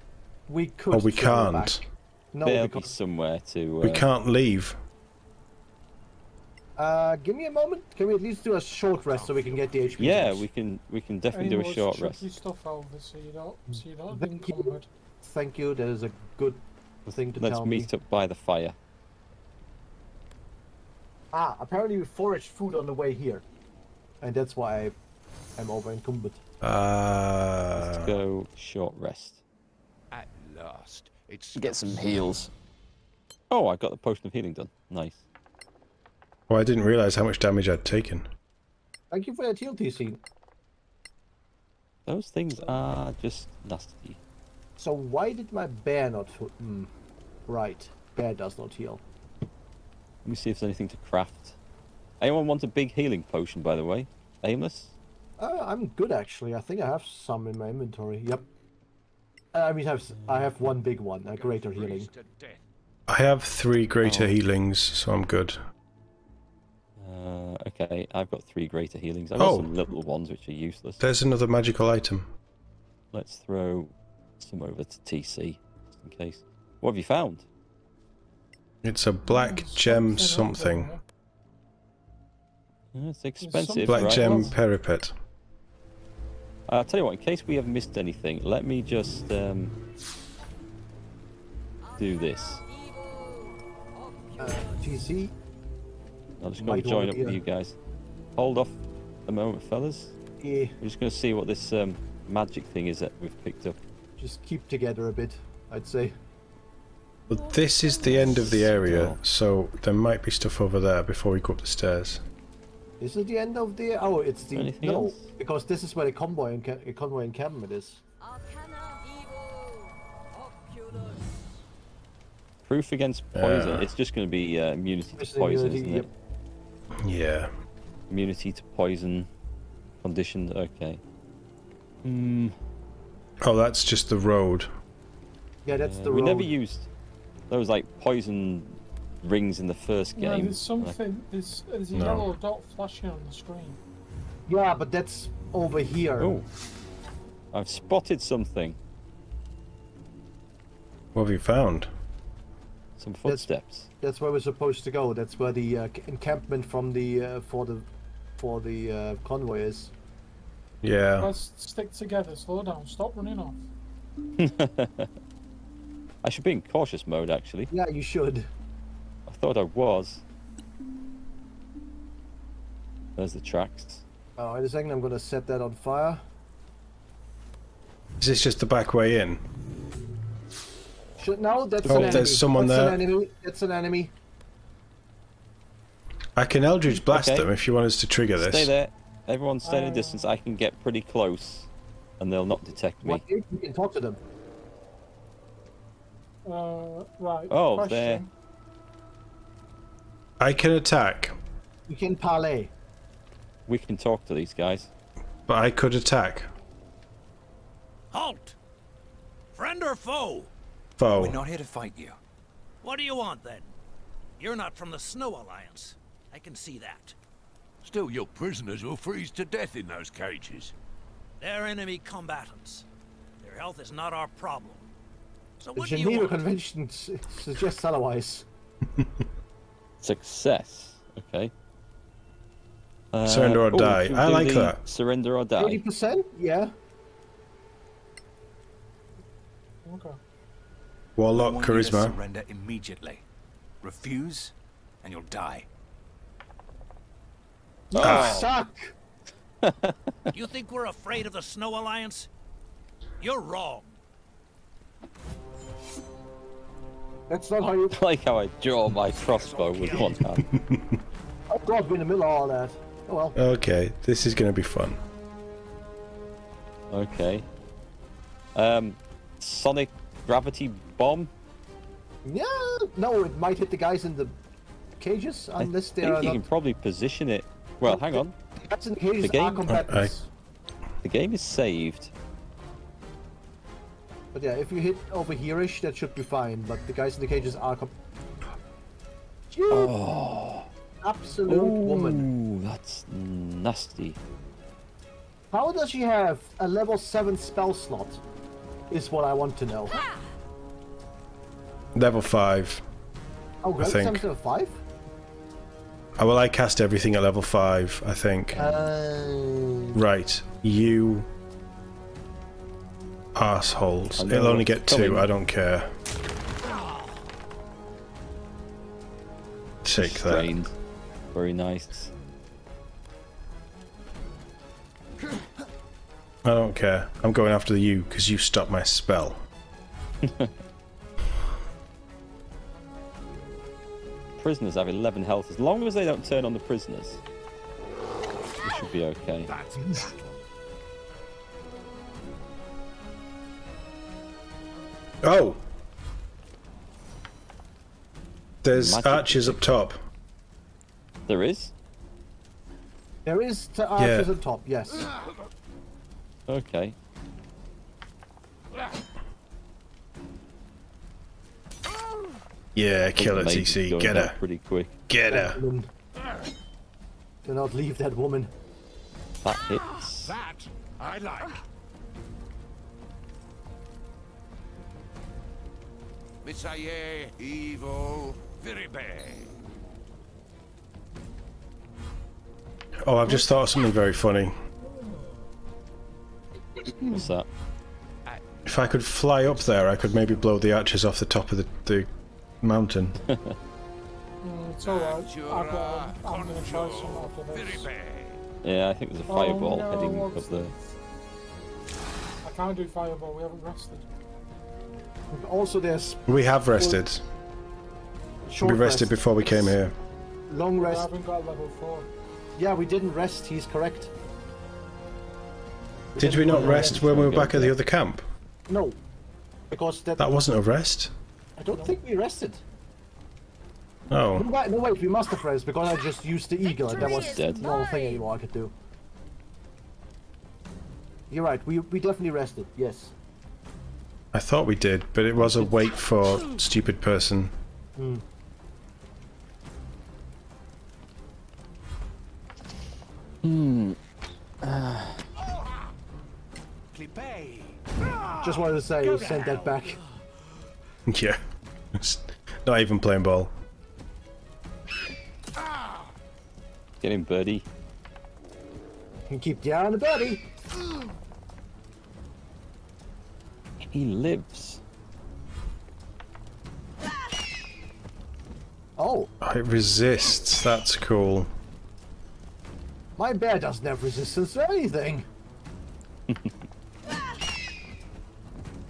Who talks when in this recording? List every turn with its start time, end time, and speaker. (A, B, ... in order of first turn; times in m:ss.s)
0:00.5-0:02.9 A
0:00.9-0:01.8 B
0:02.4-0:04.1 C
0:03.8-0:04.8 B
0:06.8-0:10.4 A
0:08.9-0:10.4 D
0:10.0-0:12.2 C
0:11.3-0:14.9 E
0:13.7-0:17.9 A
0:17.1-0:18.8 C
0:21.3-0:23.4 A
0:24.2-0:25.0 A
0:25.6-0:26.4 A
0:26.6-0:28.2 B
0:27.8-0:29.4 C
0:30.1-0:32.5 D
0:31.6-0:32.2 C
0:33.5-0:35.2 C
0:36.5-0:38.3 B
0:39.1-0:40.2 A
0:42.1-0:44.2 C
0:44.8-0:46.9 A
0:47.5-0:49.0 A
0:50.2-0:51.6 C
0:52.2-0:54.9 C
0:55.4-0:58.4 A
0:59.5-1:02.1 A
1:01.2-1:02.6 D
1:03.1-1:05.6 B
1:04.0-1:04.4 C
1:07.0-1:11.0 C
1:09.4-1:09.7 B
1:11.0-1:12.3 B
1:13.1-1:17.4 C
1:18.8-1:20.9 B
1:19.2-1:21.0 E
1:22.9-1:24.5 C
1:23.4-1:24.6 E
1:23.9-1:25.1 B
1:26.7-1:29.7 C
1:32.0-1:32.6 C
1:34.4-1:35.3 A
1:36.4-1:37.8 C
1:36.6-1:37.4 A
1:38.4-1:40.2 C
1:40.4-1:40.8 A
1:40.8-1:43.8 C
1:44.2-1:46.1 A
1:47.3-1:52.2 B
1:48.0-1:49.2 C
1:53.0-1:58.0 A
1:54.5-1:55.3 C
2:02.6-2:06.1 C
2:03.3-2:03.9 B
2:05.2-2:06.1 A
2:07.0-2:07.5 B
2:08.1-2:09.3 C
2:10.0-2:11.0 C
2:12.0-2:12.6 C
2:13.4-2:14.7 B
2:15.6-2:16.5 A
2:15.7-2:16.9 C
2:17.5-2:21.0 C
2:20.2-2:23.8 E
2:21.9-2:22.3 B
2:24.5-2:26.4 A
2:26.2-2:26.4 C
2:27.5-2:28.8 C
2:31.1-2:31.9 B
2:33.0-2:33.9 C
2:34.0-2:39.9 A
2:40.8-2:41.3 B
2:41.2-2:43.6 E
2:44.4-2:45.1 C
2:46.2-2:47.7 C
2:47.7-2:48.5 A
2:49.3-2:50.2 C
2:53.2-2:54.0 C
2:54.4-2:56.2 A
2:58.2-2:59.4 B
3:01.2-3:04.1 A
3:01.8-3:03.0 B
3:06.4-3:08.7 B
3:06.9-3:07.5 C
3:08.4-3:13.2 C
3:09.6-3:10.3 E
3:13.0-3:14.2 A
3:16.4-3:18.3 E
3:17.5-3:18.2 C
3:20.4-3:21.4 B
3:21.9-3:22.7 A
3:23.7-3:24.9 C
3:25.5-3:26.5 B
3:28.1-3:28.6 F
3:29.5-3:30.5 F
3:31.0-3:31.4 B
3:31.1-3:32.2 G
3:32.8-3:33.7 F
3:34.4-3:37.2 F
3:37.8-3:40.7 D
3:41.4-3:42.8 F
3:43.4-3:44.8 F
3:45.6-3:46.4 F
3:45.8-3:48.4 A
3:50.0-3:51.5 C
3:53.1-3:55.8 C
3:53.2-3:54.8 B
3:55.6-3:56.7 A
3:59.8-4:00.2 E
4:01.2-4:02.1 B
4:01.3-4:03.2 G
4:03.8-4:05.7 G
4:07.9-4:08.9 A
4:07.9-4:08.5 C
4:08.0-4:08.4 B
4:09.6-4:10.1 C
4:10.3-4:12.3 F
4:13.2-4:13.9 F
4:17.3-4:18.0 A
4:17.9-4:20.4 C
4:19.4-4:20.2 F
4:20.5-4:21.0 B
4:21.5-4:23.4 A
4:23.4-4:25.0 B
4:26.9-4:27.4 C
4:28.6-4:31.3 C
4:32.2-4:34.4 A
4:35.0-4:36.4 A
4:35.6-4:38.3 C
4:37.8-4:40.3 A
4:39.2-4:39.6 C
4:39.7-4:40.1 B
4:41.0-4:42.1 C
4:44.3-4:47.9 A
4:49.5-4:49.9 A
4:49.7-4:50.7 C
4:51.0-4:52.3 A
4:51.5-4:54.2 C
4:55.5-4:58.2 A
4:58.9-5:00.0 A
5:01.9-5:02.8 B
5:03.6-5:04.8 A
5:03.8-5:04.2 B
5:06.2-5:08.9 B
5:08.5-5:10.0 A
5:09.9-5:11.3 B
5:13.3-5:15.9 B
5:14.2-5:15.3 C
5:19.8-5:20.5 B
5:20.0-5:20.7 C
5:21.3-5:22.1 C
5:26.4-5:29.4 B
5:30.2-5:30.5 C
5:34.4-5:37.2 C
5:38.6-5:39.5 C
5:39.5-5:40.4 D
5:45.2-5:45.6 B
5:48.6-5:50.0 B
5:48.7-5:49.6 C
5:51.3-5:51.7 C
5:53.2-5:55.1 A
5:54.0-5:54.3 B
5:56.5-5:57.0 C
6:02.7-6:04.4 B
6:03.2-6:04.9 C
6:05.1-6:05.6 B
6:05.3-6:05.9 A
6:07.4-6:08.5 A
6:09.4-6:10.4 C
6:10.2-6:11.6 D
6:16.4-6:19.5 D
6:23.0-6:24.5 B
6:27.1-6:27.5 C
6:28.6-6:32.1 B
6:32.6-6:33.2 B
6:33.2-6:33.6 C
6:34.4-6:37.9 E
6:34.8-6:38.4 D
6:38.6-6:40.7 C
6:39.3-6:40.7 E
6:42.4-6:44.0 E
6:45.3-6:47.0 A
6:46.3-6:47.2 B
6:48.5-6:49.2 A
6:48.6-6:49.9 B
6:50.5-6:51.1 A
6:50.8-6:52.1 E
6:52.6-6:54.1 A
6:56.2-6:57.0 A
6:56.2-6:58.2 B
6:56.5-6:57.8 C
6:58.7-6:59.0 A
6:59.7-7:00.3 A
7:00.2-7:01.1 B
7:01.6-7:02.6 A
7:04.1-7:04.5 B
7:04.3-7:08.7 A
7:06.9-7:07.7 C
7:11.3-7:13.1 A
7:14.3-7:17.5 B
7:15.4-7:15.8 C
7:18.0-7:18.2 A
7:23.4-7:24.0 C
7:24.6-7:25.2 C
7:26.9-7:29.8 D
7:28.4-7:30.0 A
7:31.1-7:31.4 B
7:31.9-7:33.5 B
7:37.0-7:37.6 C
7:39.3-7:40.4 A
7:43.9-7:44.8 C
7:49.0-7:49.3 A
7:49.4-7:51.5 B
7:53.2-7:55.2 A
7:56.3-7:56.5 C